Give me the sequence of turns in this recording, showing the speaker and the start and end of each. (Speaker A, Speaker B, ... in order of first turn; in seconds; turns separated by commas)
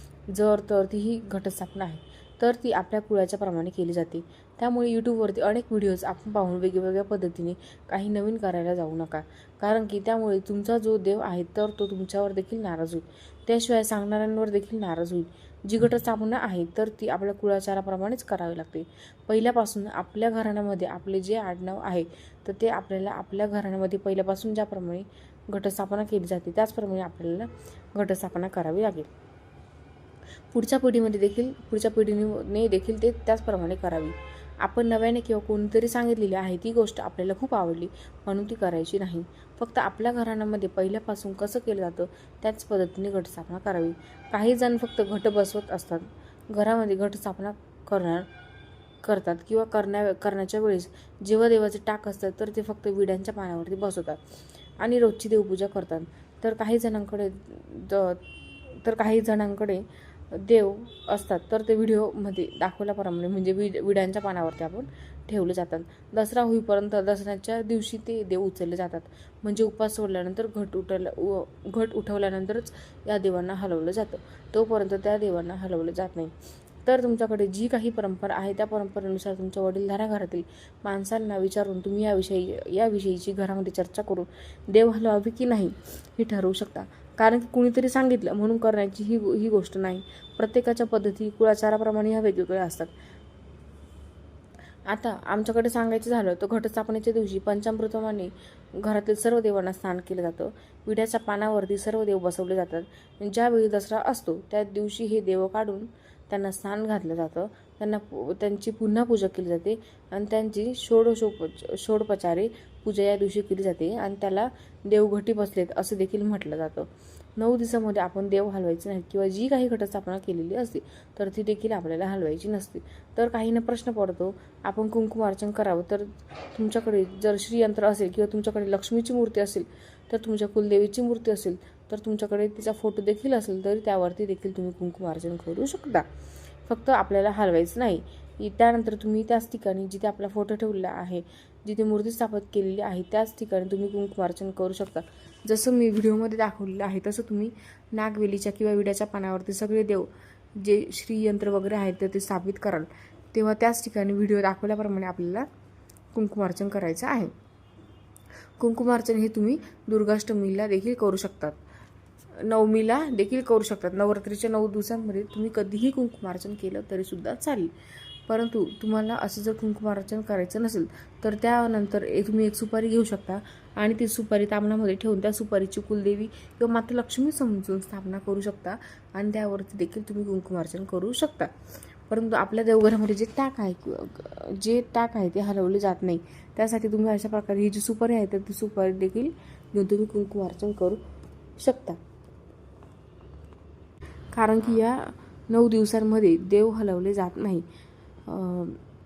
Speaker A: 0.3-29.1, Speaker A: 30.5-48.3, Speaker A: 49.0-54.2, Speaker A: 54.8-58.2, Speaker A: 58.8-76.3, Speaker A: 76.8-92.9, Speaker A: 94.9-136.1, Speaker A: 136.7-155.5, Speaker A: 156.1-157.3, Speaker A: 158.6-161.6, Speaker A: 162.4-167.7, Speaker A: 168.3-181.5, Speaker A: 182.1-191.0, Speaker A: 191.6-192.0, Speaker A: 194.3-197.7, Speaker A: 198.3-198.8